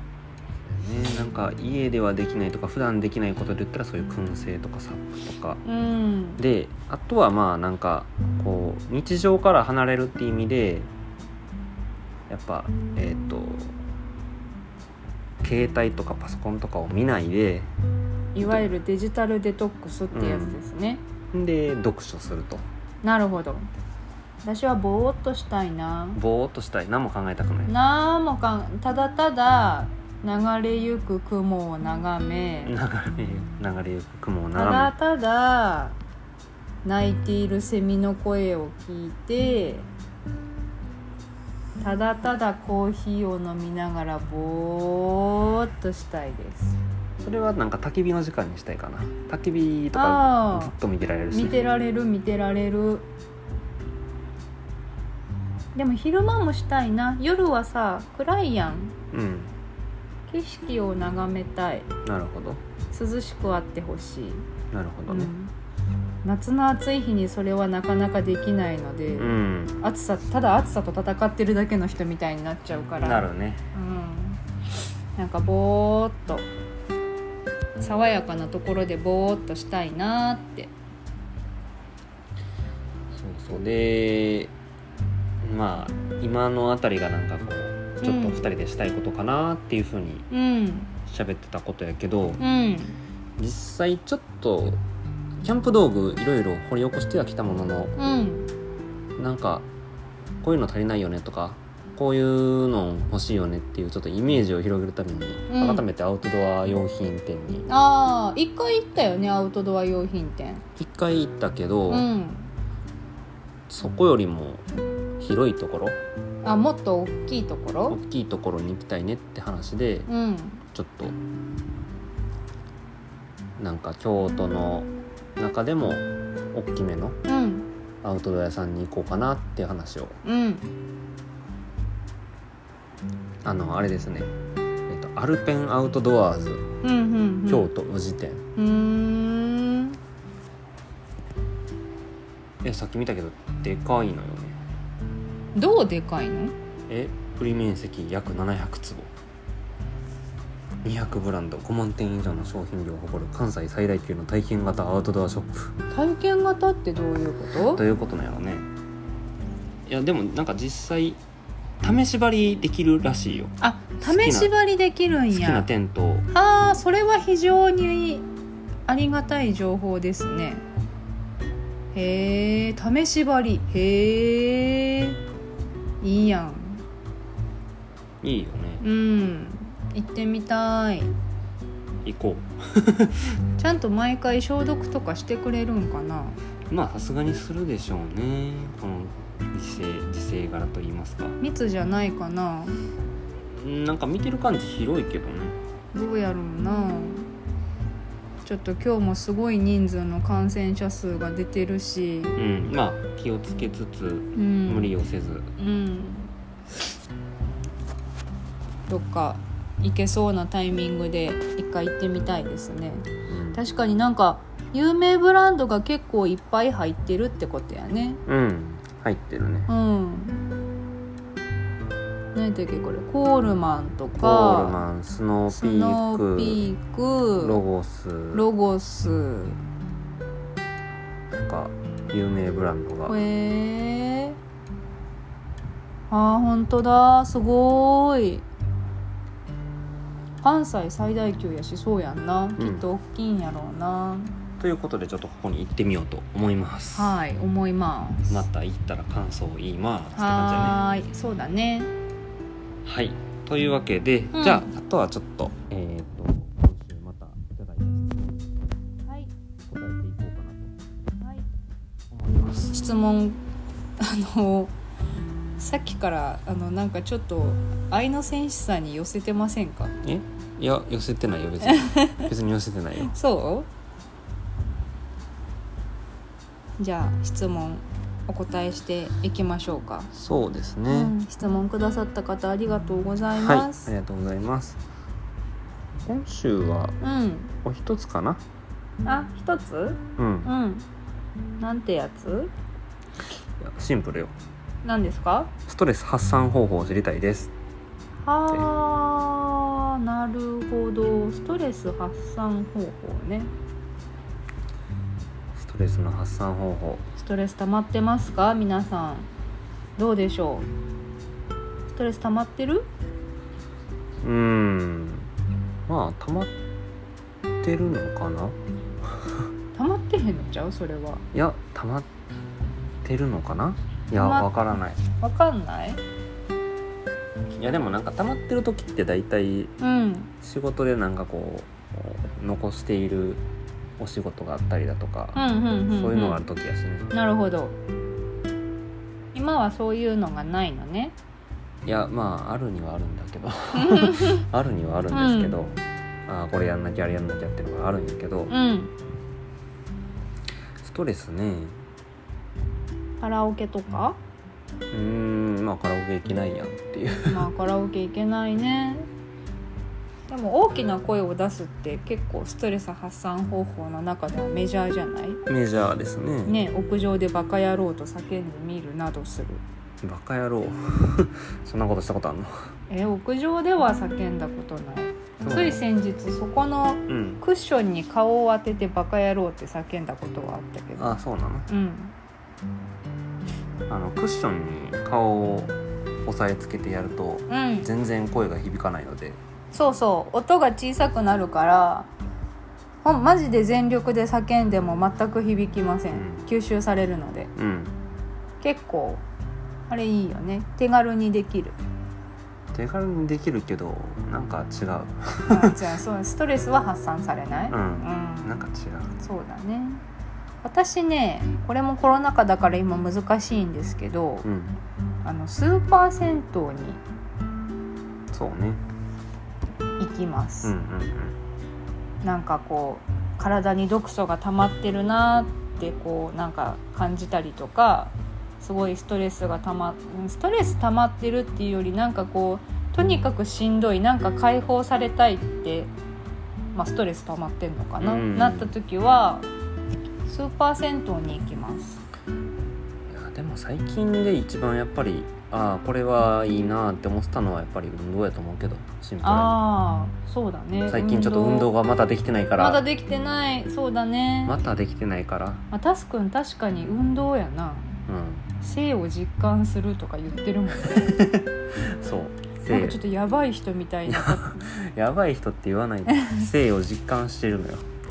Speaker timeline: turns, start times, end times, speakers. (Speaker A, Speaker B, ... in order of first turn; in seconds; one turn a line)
Speaker A: 0.6-5.6
Speaker B: 5.7-6.4
Speaker A: 6.4-10.9
Speaker A: 12.3-13.8
Speaker A: 15.4-17.7
Speaker B: 18.4-21.0
Speaker A: 18.4-18.7
Speaker A: 20.1-20.6
Speaker A: 21.3-22.7
Speaker B: 23.0-23.7
Speaker B: 24.4-26.2
Speaker A: 26.1-27.7
Speaker B: 27.7-32.8
Speaker A: 32.6-34.9
Speaker B: 34.5-36.0
Speaker B: 36.9-39.9
Speaker B: 41.8-46.8
Speaker A: 47.2-51.6
Speaker B: 49.9-50.7
Speaker B: 51.3-53.1
Speaker B: 55.8-59.0
Speaker A: 59.1-59.5
Speaker B: 60.3-61.9
Speaker A: 62.0-62.6
Speaker B: 62.9-64.5
Speaker A: 64.7-65.3
Speaker B: 65.1-65.5
Speaker B: 66.2-69.3
Speaker A: 69.2-69.8
Speaker B: 69.8-74.4
Speaker A: 73.0-73.7
Speaker B: 75.2-76.5
Speaker B: 77.8-80.7
Speaker A: 83.1-84.5
Speaker A: 85.4-90.3
Speaker B: 88.0-88.4
Speaker B: 90.3-90.9
Speaker A: 91.1-92.4
Speaker B: 92.4-93.0
Speaker A: 93.4-94.8
Speaker A: 95.4-98.0
Speaker B: 98.0-98.5
Speaker A: 99.2-99.7
Speaker A: 100.4-107.7
Speaker B: 105.5-105.8
Speaker B: 107.7-110.6
Speaker A: 110.8-112.1
Speaker B: 111.9-112.5
Speaker A: 113.7-114.7
Speaker A: 115.2-116.0
Speaker B: 116.4-118.0
Speaker A: 117.9-120.1
Speaker B: 120.1-120.6
Speaker A: 120.7-121.2
Speaker A: 123.6-127.2
Speaker B: 127.3-127.7
Speaker A: 128.0-130.2
Speaker B: 130.2-130.7
Speaker A: 133.4-134.3
Speaker A: 134.9-136.7
Speaker B: 136.8-137.7
Speaker A: 137.5-138.4
Speaker B: 138.6-140.0
Speaker A: 142.6-144.6
Speaker B: 145.6-146.5
Speaker A: 146.9-149.1
Speaker A: 150.8-155.7
Speaker B: 155.9-157.8
Speaker A: 157.6-158.7
Speaker A: 159.9-161.2
Speaker A: 161.8-164.5
Speaker B: 163.6-165.7
Speaker A: 165.3-166.3
Speaker B: 166.3-168.2
Speaker B: 168.9-170.6
Speaker B: 171.9-175.2
Speaker B: 176.0-176.8
Speaker A: 178.2-178.8
Speaker B: 178.8-181.1
Speaker A: 182.0-183.3
Speaker B: 183.6-186.4
Speaker A: 186.7-191.4
Speaker B: 191.4-192.8
Speaker A: 193.5-195.6
Speaker B: 195.9-197.3
Speaker B: 198.4-202.4
Speaker A: 202.4-205.5
Speaker B: 204.4-204.9
Speaker B: 205.6-206.3
Speaker B: 208.9-218.2
Speaker A: 213.3-213.6
Speaker A: 218.3-219.7
Speaker B: 219.7-220.4
Speaker B: 222.3-224.8
Speaker A: 224.2-226.7
Speaker B: 225.5-227.6
Speaker A: 227.4-228.4
Speaker B: 228.3-229.6
Speaker A: 231.3-233.2
Speaker B: 233.1-234.4
Speaker B: 236.1-238.4
Speaker B: 240.4-244.3
Speaker A: 242.6-242.9
Speaker A: 244.6-247.2
Speaker B: 246.9-248.5
Speaker A: 248.3-250.8
Speaker B: 250.2-251.9
Speaker A: 252.8-258.5
Speaker B: 254.3-254.7
Speaker B: 259.1-259.3
Speaker A: 259.7-260.8
Speaker B: 261.2-261.5
Speaker A: 262.1-262.7
Speaker B: 262.7-263.4
Speaker B: 264.0-264.7
Speaker B: 265.6-269.9
Speaker A: 270.0-273.1
Speaker B: 271.6-272.3
Speaker B: 273.0-273.7
Speaker B: 276.8-280.1
Speaker A: 280.1-281.1
Speaker B: 280.9-283.9
Speaker A: 283.4-284.8
Speaker A: 286.0-287.0
Speaker B: 287.0-287.6
Speaker A: 287.6-288.4
Speaker B: 289.1-290.9
Speaker A: 290.2-290.5
Speaker B: 291.6-292.5
Speaker A: 293.6-294.3
Speaker B: 294.8-295.5
Speaker A: 295.7-297.5
Speaker B: 298.2-303.5
Speaker A: 305.5-307.1
Speaker B: 307.2-309.3
Speaker B: 310.0-310.7
Speaker B: 311.9-312.9
Speaker A: 314.2-315.3
Speaker A: 315.9-316.5
Speaker A: 317.6-319.4
Speaker B: 319.8-321.2
Speaker A: 321.3-322.1
Speaker A: 323.0-325.0
Speaker B: 324.2-324.5
Speaker B: 325.2-326.0
Speaker A: 327.6-329.7
Speaker B: 329.8-330.3
Speaker A: 330.4-333.4
Speaker A: 334.0-337.1
Speaker B: 335.4-336.4
Speaker B: 337.1-337.8
Speaker B: 339.3-341.1
Speaker A: 341.9-348.5
Speaker B: 343.7-344.5
Speaker B: 345.1-345.6
Speaker B: 348.5-348.9
Speaker A: 350.8-351.8
Speaker B: 353.2-354.2
Speaker A: 354.9-357.5
Speaker B: 357.3-359.1
Speaker B: 360.3-365.4
Speaker A: 365.5-366.6
Speaker B: 366.5-369.6
Speaker A: 370.0-372.7
Speaker B: 372.9-381.2
Speaker A: 375.4-375.8
Speaker A: 377.1-377.4
Speaker A: 381.0-381.7
Speaker B: 381.7-382.1
Speaker A: 383.9-389.4
Speaker B: 387.5-387.9
Speaker B: 389.7-392.1
Speaker B: 393.0-397.5
Speaker A: 396.1-396.4
Speaker A: 397.6-398.0
Speaker B: 398.6-399.2
Speaker B: 399.9-401.8
Speaker A: 402.7-405.8
Speaker B: 405.5-408.6
Speaker A: 407.7-409.2
Speaker B: 409.2-410.0
Speaker B: 410.6-414.5
Speaker A: 414.4-414.8
Speaker B: 415.2-417.0
Speaker A: 418.3-418.8
Speaker B: 420.0-420.7
Speaker A: 420.6-421.4
Speaker B: 422.2-435.9
Speaker B: 436.8-439.5
Speaker A: 438.0-438.7
Speaker B: 440.3-442.0
Speaker A: 443.1-449.6
Speaker B: 449.2-451.7
Speaker A: 450.9-452.9
Speaker B: 452.6-454.6
Speaker A: 454.5-455.6
Speaker B: 455.7-458.0
Speaker A: 458.1-458.5
Speaker B: 458.6-461.2
Speaker A: 460.8-463.0
Speaker B: 462.6-464.8
Speaker A: 464.1-467.9
Speaker B: 466.1-466.5